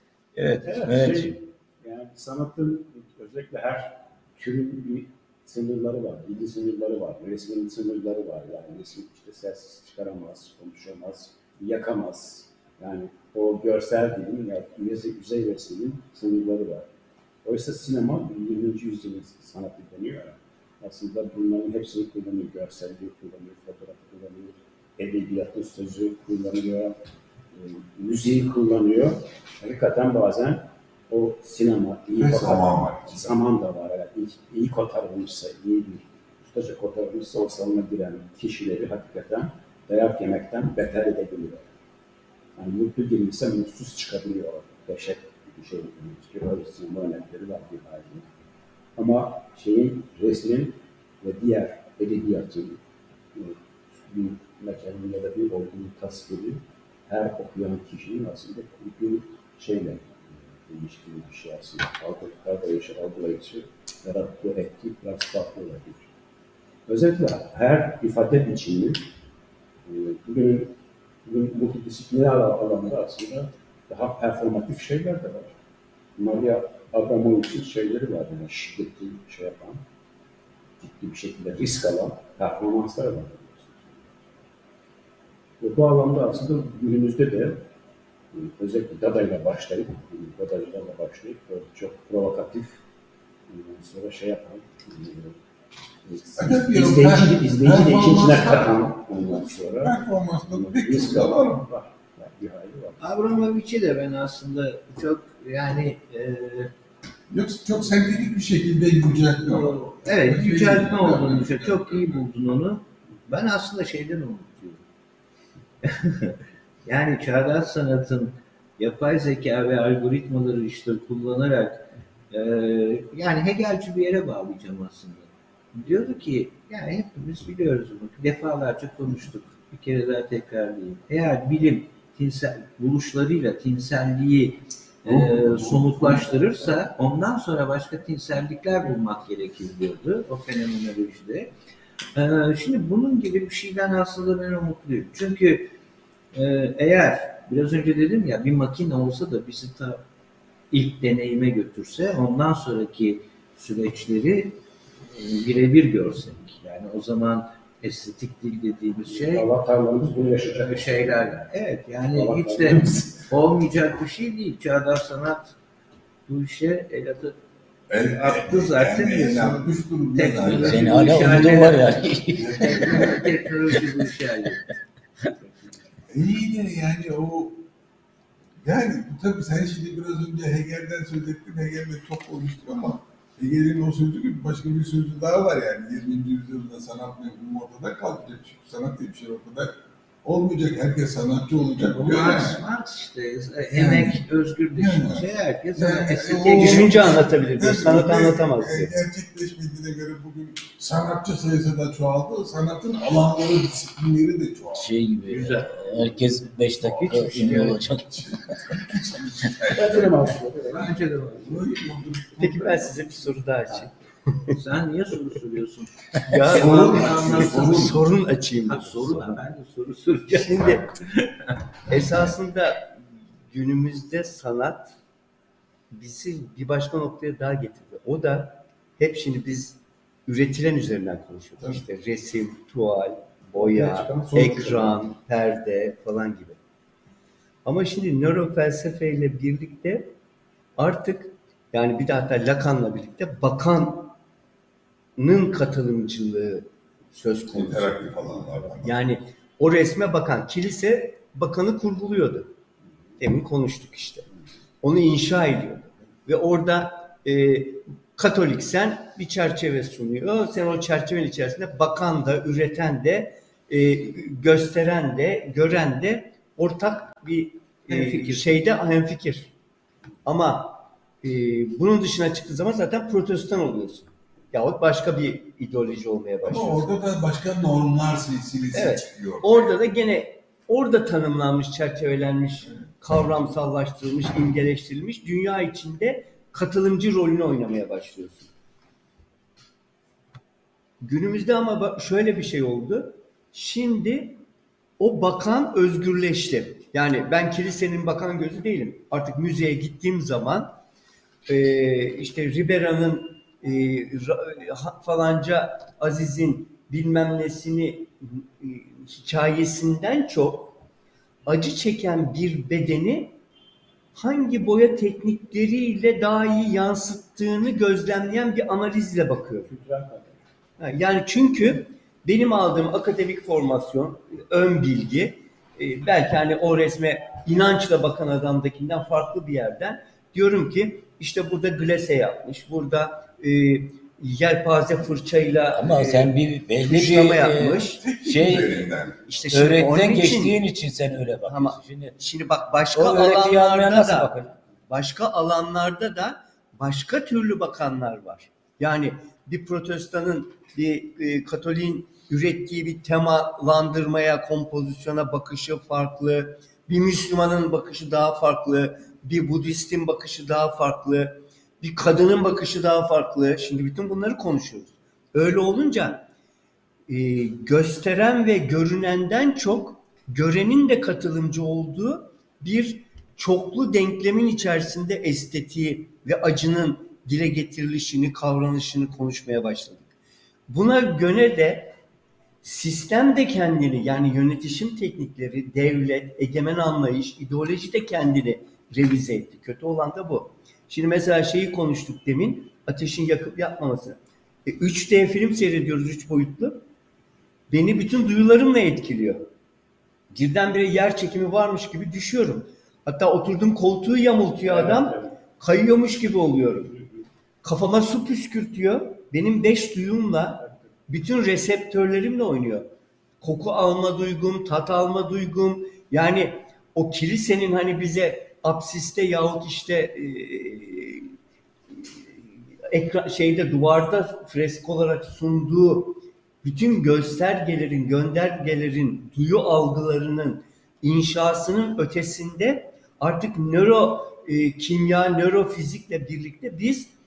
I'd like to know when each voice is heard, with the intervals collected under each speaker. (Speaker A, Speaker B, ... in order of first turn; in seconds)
Speaker A: 0.3-1.4, 170.4-173.2, 204.8-208.6, 335.7-338.9, 339.5-342.2, 342.9-344.6
Speaker B: 0.6-16.9, 17.4-27.0, 27.5-41.7, 42.5-48.3, 49.0-52.8, 53.3-66.1, 66.9-69.1, 69.8-75.5, 76.2-79.8, 80.8-84.3, 85.6-87.6, 88.3-92.8, 93.5-95.4, 96.0-103.0, 159.1-161.5, 162.1-163.2, 209.7-211.0, 233.5-235.2, 319.6-320.4, 404.6-405.4, 406.9-407.2, 410.6-410.9
Speaker C: 32.1-33.2, 96.4-101.7, 107.3-112.2, 135.0-136.5, 167.9-171.5, 172.3-173.4, 176.1-177.7, 178.6-192.6, 193.7-204.9, 207.0-213.1, 216.3-218.0, 247.5-249.0, 276.4-279.7, 282.6-282.9, 338.0-339.2
Speaker D: 103.0-106.7, 109.4-114.8, 115.8-141.5, 142.1-145.7, 146.3-150.0, 150.7-159.5, 160.5-165.5, 166.3-167.4, 168.0-174.7, 191.8-197.2, 205.2-206.2, 206.8-207.8, 210.7-211.8, 214.5-218.0, 218.7-221.5, 267.9-268.6
Speaker E: 196.5-198.9, 212.4-214.6, 216.2-219.4, 220.3-220.9, 221.9-223.0, 223.5-224.9, 225.9-236.6, 237.6-240.1, 240.8-244.1, 245.2-252.5, 253.2-254.3, 254.8-269.5, 270.2-276.9, 278.7-288.5, 291.0-294.4, 295.0-300.7, 301.5-310.8, 311.4-313.4, 314.1-319.7, 320.8-338.0, 339.3-340.6, 341.4-344.3, 344.9-366.2, 367.1-380.1, 380.7-381.9, 382.6-396.8, 397.7-399.4, 400.3-406.9, 407.6-412.9, 413.4-421.3, 422.9-437.1